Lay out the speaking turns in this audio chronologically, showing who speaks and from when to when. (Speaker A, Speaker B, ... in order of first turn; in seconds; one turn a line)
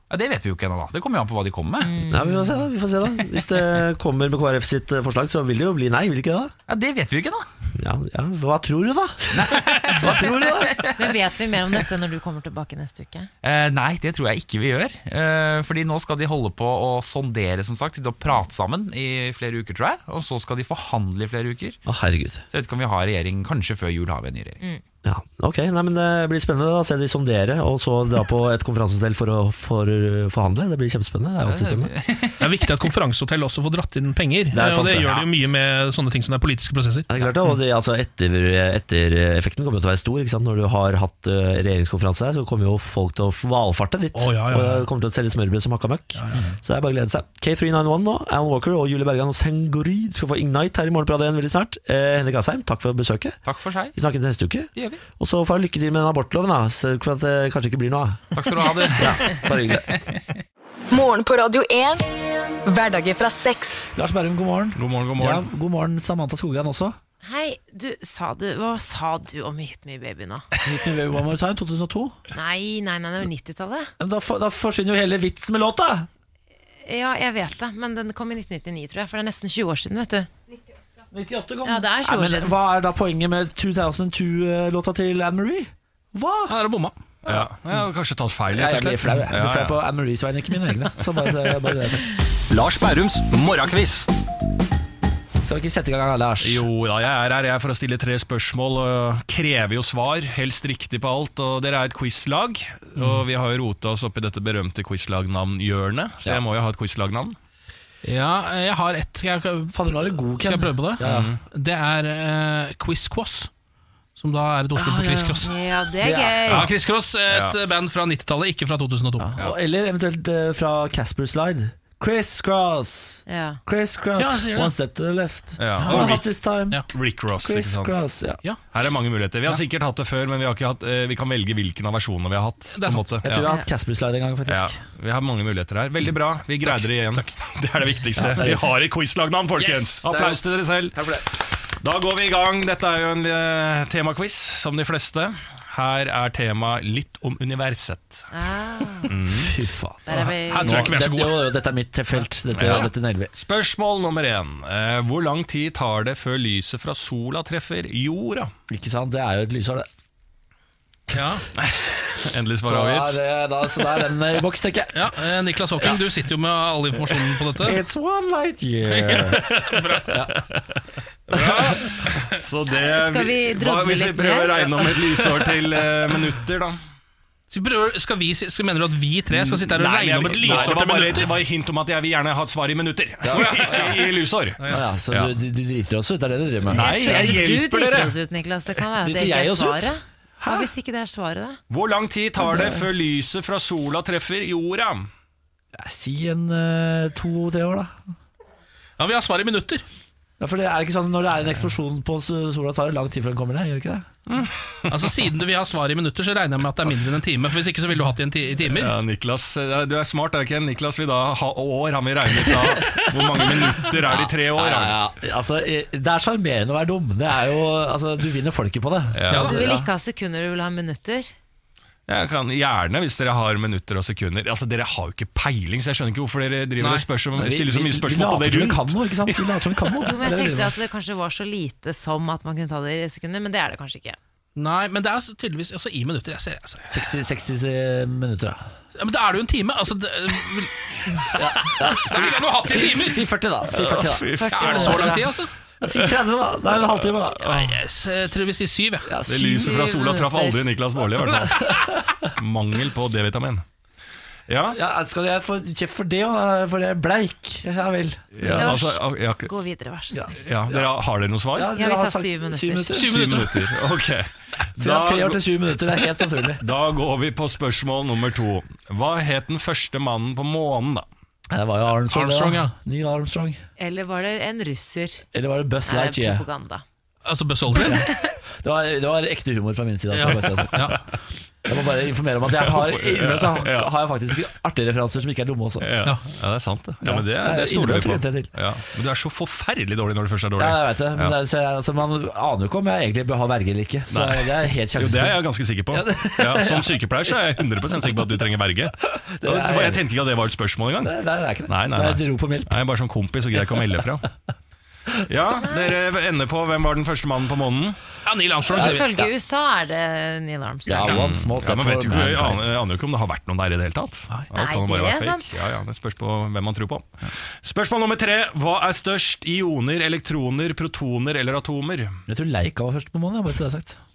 Speaker A: 0.1-2.0
Speaker B: 1.8-2.6
Speaker C: 2.1-6.5
Speaker A: 6.7-7.5
Speaker C: 7.7-10.8
Speaker A: 9.3-11.2
Speaker B: 11.0-13.3
Speaker A: 13.4-21.8
Speaker C: 21.9-22.4
Speaker A: 22.5-24.6
Speaker C: 25.0-31.9
Speaker A: 31.4-32.5
Speaker D: 32.4-37.1
Speaker C: 34.5-35.2
Speaker C: 37.1-53.4
Speaker D: 44.1-44.9
Speaker D: 46.1-46.4
Speaker A: 53.4-54.0
Speaker C: 53.9-58.2
Speaker A: 54.7-55.0
Speaker A: 58.3-60.4
Speaker C: 59.0-59.9
Speaker E: 60.9-62.1
Speaker E: 62.6-63.9
Speaker C: 64.0-67.0
Speaker F: 64.7-65.5
Speaker B: 67.2-70.5
Speaker C: 70.6-72.2
Speaker B: 72.3-73.9
Speaker C: 74.0-76.1
Speaker B: 76.8-80.3
Speaker C: 81.1-86.5
Speaker B: 81.6-82.5
Speaker D: 86.5-87.0
Speaker F: 87.2-89.8
Speaker C: 88.5-92.2
Speaker F: 91.0-94.1
Speaker C: 95.4-96.6
Speaker F: 96.4-107.3
Speaker D: 108.0-109.7
Speaker C: 109.7-111.3
Speaker D: 110.4-113.5
Speaker F: 111.0-111.4
Speaker D: 114.2-115.5
Speaker C: 114.8-115.4
Speaker B: 115.4-116.7
Speaker C: 116.0-116.7
Speaker D: 116.5-119.3
Speaker F: 117.3-117.5
Speaker C: 119.2-126.8
Speaker B: 123.3-123.6
Speaker D: 124.2-124.7
Speaker F: 125.6-126.2
Speaker D: 125.8-126.9
Speaker F: 126.9-128.0
Speaker C: 127.4-128.4
Speaker F: 128.7-133.4
Speaker D: 132.7-133.4
Speaker C: 133.2-134.8
Speaker F: 134.4-148.3
Speaker D: 136.6-137.4
Speaker C: 138.2-138.7
Speaker D: 139.6-140.0
Speaker C: 140.0-141.2
Speaker B: 148.3-149.1
Speaker F: 149.1-149.6
Speaker C: 149.2-153.3
Speaker B: 150.1-150.8
Speaker D: 150.5-151.5
Speaker F: 152.5-158.5
Speaker C: 158.7-159.9
Speaker D: 161.1-161.4
Speaker F: 161.6-163.2
Speaker C: 162.6-165.1
Speaker F: 163.7-164.1
Speaker D: 164.9-167.8
Speaker C: 167.6-169.5
Speaker D: 168.9-170.1
Speaker F: 169.5-170.4
Speaker C: 170.0-170.4
Speaker F: 171.3-176.8
Speaker D: 171.3-171.9
Speaker B: 172.7-175.0
Speaker D: 177.5-181.3
Speaker F: 179.3-185.3
Speaker C: 180.4-180.7
Speaker C: 183.2-183.9
Speaker D: 183.3-184.8
Speaker C: 184.7-187.3
Speaker F: 186.7-188.2
Speaker B: 186.8-191.6
Speaker C: 189.0-190.7
Speaker F: 191.7-195.1
Speaker C: 192.4-192.9
Speaker C: 195.7-198.0
Speaker D: 199.0-199.8
Speaker C: 200.4-204.1
Speaker F: 204.3-205.1
Speaker D: 204.9-208.9
Speaker F: 208.7-215.0
Speaker C: 212.8-213.0
Speaker C: 214.1-219.9
Speaker F: 219.1-219.5
Speaker B: 219.4-221.3
Speaker F: 222.1-229.6
Speaker D: 226.8-227.1
Speaker C: 227.3-230.7
Speaker B: 230.0-234.2
Speaker D: 234.6-236.9
Speaker C: 236.9-238.7
Speaker D: 239.0-243.2
Speaker C: 241.2-245.3
Speaker F: 243.7-245.1
Speaker B: 244.4-245.1
Speaker D: 244.5-245.5
Speaker F: 245.8-246.2
Speaker C: 245.8-247.7
Speaker F: 246.7-247.6
Speaker D: 247.5-249.1
Speaker C: 249.1-249.8
Speaker F: 249.3-253.6
Speaker B: 249.6-250.6
Speaker C: 251.4-252.3
Speaker F: 254.5-254.8
Speaker C: 254.7-258.8
Speaker F: 258.3-259.5
Speaker B: 258.4-260.4
Speaker C: 260.1-260.9
Speaker F: 260.4-261.7
Speaker C: 261.5-263.5
Speaker B: 261.7-263.0
Speaker D: 263.0-263.6
Speaker F: 263.0-271.1
Speaker C: 264.8-266.6
Speaker C: 271.5-273.6
Speaker D: 272.1-272.7
Speaker B: 273.8-275.2
Speaker C: 275.3-276.4
Speaker B: 275.9-276.8
Speaker D: 277.2-278.1
Speaker C: 277.7-280.9
Speaker D: 280.1-281.0
Speaker C: 281.6-285.9
Speaker F: 282.5-284.4
Speaker F: 285.8-291.4
Speaker C: 287.0-288.5
Speaker C: 290.6-295.4
Speaker F: 294.1-301.1
Speaker C: 295.9-297.1
Speaker C: 299.4-300.0
Speaker C: 301.0-302.8
Speaker F: 301.7-304.3
Speaker F: 305.3-308.0
Speaker B: 305.6-306.0
Speaker D: 308.2-309.2
Speaker C: 308.7-309.2
Speaker B: 308.7-311.2
Speaker C: 310.9-312.7
Speaker F: 311.1-322.2
Speaker B: 314.5-315.6
Speaker C: 322.3-324.0